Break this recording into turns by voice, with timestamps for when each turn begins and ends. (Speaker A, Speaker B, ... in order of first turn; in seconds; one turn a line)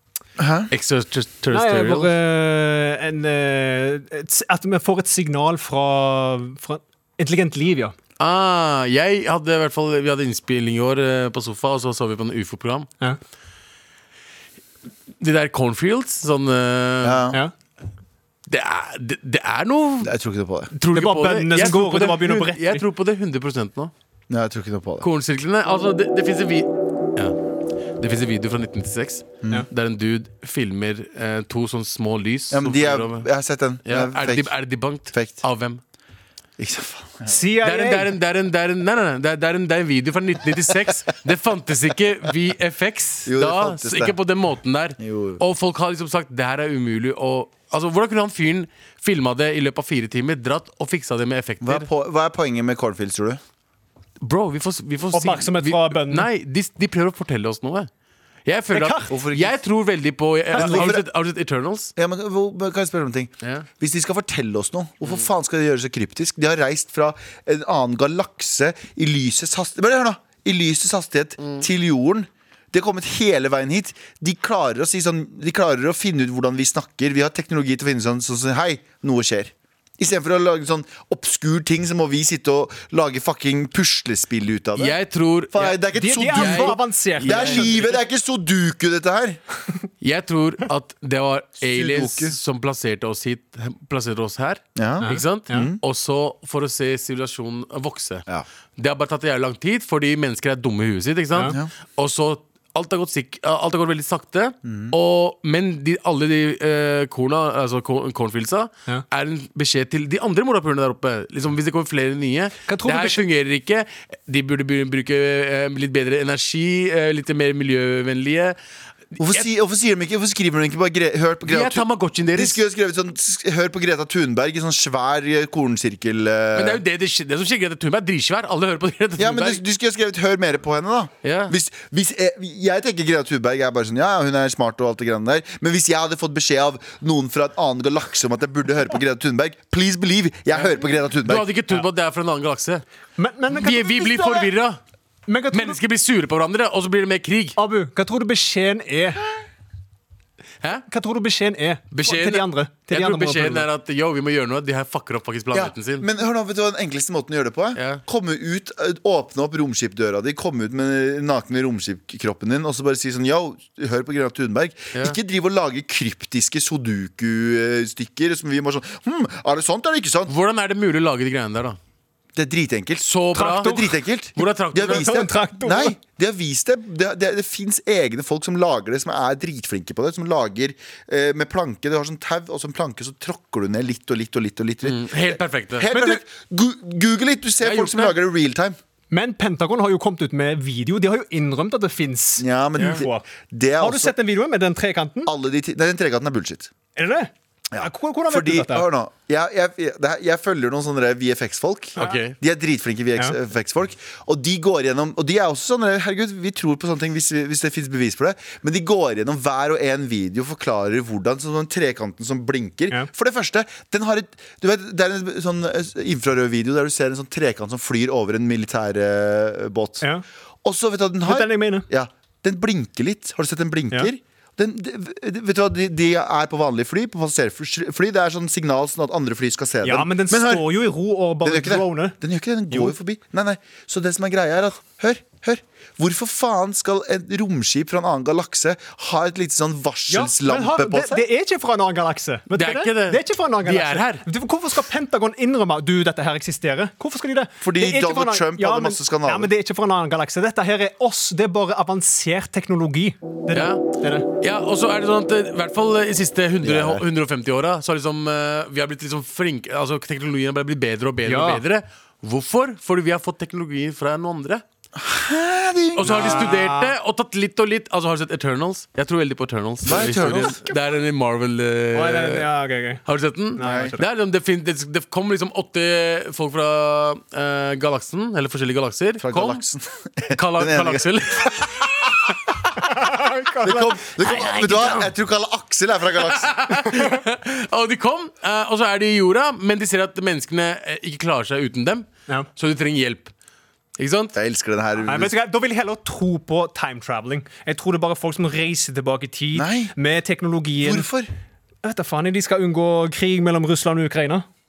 Speaker A: 0.4-0.7
Speaker B: 0.7-2.1
Speaker C: 1.5-8.0
Speaker B: 8.2-12.9
Speaker B: 15.2-17.2
Speaker A: 17.0-17.4
Speaker B: 18.5-20.1
Speaker A: 20.0-20.7
Speaker C: 20.8-22.8
Speaker B: 20.8-23.9
Speaker A: 24.3-25.1
Speaker B: 25.0-27.4
Speaker B: 28.0-33.3
Speaker A: 32.5-34.5
Speaker B: 33.9-35.8
Speaker A: 35.1-35.4
Speaker A: 36.6-37.4
Speaker C: 37.3-38.1
Speaker B: 37.6-51.9
Speaker A: 43.3-44.1
Speaker A: 45.0-45.4
Speaker A: 51.6-53.4
Speaker B: 54.2-57.9
Speaker C: 55.1-56.3
Speaker B: 58.5-61.9
Speaker C: 58.7-59.1
Speaker A: 59.1-59.6
Speaker C: 60.5-60.9
Speaker A: 60.6-61.0
Speaker A: 62.0-85.0
Speaker B: 63.4-63.7
Speaker B: 71.4-71.7
Speaker B: 84.8-88.0
Speaker A: 85.5-89.4
Speaker C: 86.0-87.8
Speaker B: 90.0-98.3
Speaker A: 91.6-92.4
Speaker A: 94.8-95.8
Speaker C: 95.0-95.7
Speaker B: 98.8-118.6
Speaker A: 104.7-105.0
Speaker C: 112.7-113.2
Speaker B: 119.1-119.5
Speaker A: 119.2-126.8
Speaker B: 121.5-122.6
Speaker B: 126.5-129.6
Speaker A: 129.2-141.5
Speaker B: 131.2-131.5
Speaker B: 140.6-142.8
Speaker C: 143.2-144.5
Speaker B: 143.5-144.8
Speaker C: 145.3-145.8
Speaker B: 145.5-147.6
Speaker C: 147.6-149.2
Speaker B: 150.6-150.9
Speaker C: 150.9-153.7
Speaker B: 151.9-156.1
Speaker A: 155.5-170.3
Speaker B: 157.8-158.0
Speaker B: 170.3-171.8
Speaker A: 172.4-188.8
Speaker B: 173.1-175.3
Speaker C: 173.3-173.9
Speaker C: 174.8-175.9
Speaker B: 184.8-185.9
Speaker B: 187.6-188.2
Speaker C: 189.1-193.2
Speaker A: 192.4-194.1
Speaker B: 192.8-193.0
Speaker C: 193.8-195.3
Speaker A: 195.3-196.7
Speaker C: 197.0-198.9
Speaker A: 197.7-220.1
Speaker B: 202.0-202.3
Speaker A: 220.6-230.7
Speaker C: 221.2-221.9
Speaker C: 229.8-232.2
Speaker A: 231.4-241.2
Speaker C: 240.1-254.3
Speaker B: 242.5-244.2
Speaker A: 247.6-249.5
Speaker B: 253.5-253.8
Speaker B: 254.4-264.6
Speaker A: 256.6-257.0
Speaker C: 261.2-261.6
Speaker A: 264.9-266.4
Speaker B: 266.0-272.5
Speaker C: 266.0-266.9
Speaker A: 269.9-270.6
Speaker C: 271.9-273.0
Speaker B: 273.1-279.6
Speaker C: 273.6-274.0
Speaker A: 273.6-273.9
Speaker A: 279.2-281.7
Speaker B: 280.3-282.2
Speaker C: 282.8-284.1
Speaker A: 283.6-286.6
Speaker B: 284.4-285.1
Speaker B: 286.2-293.3
Speaker B: 294.0-294.4
Speaker A: 294.4-295.3
Speaker C: 295.0-301.1
Speaker A: 299.5-299.9
Speaker A: 300.8-301.3
Speaker C: 301.8-304.4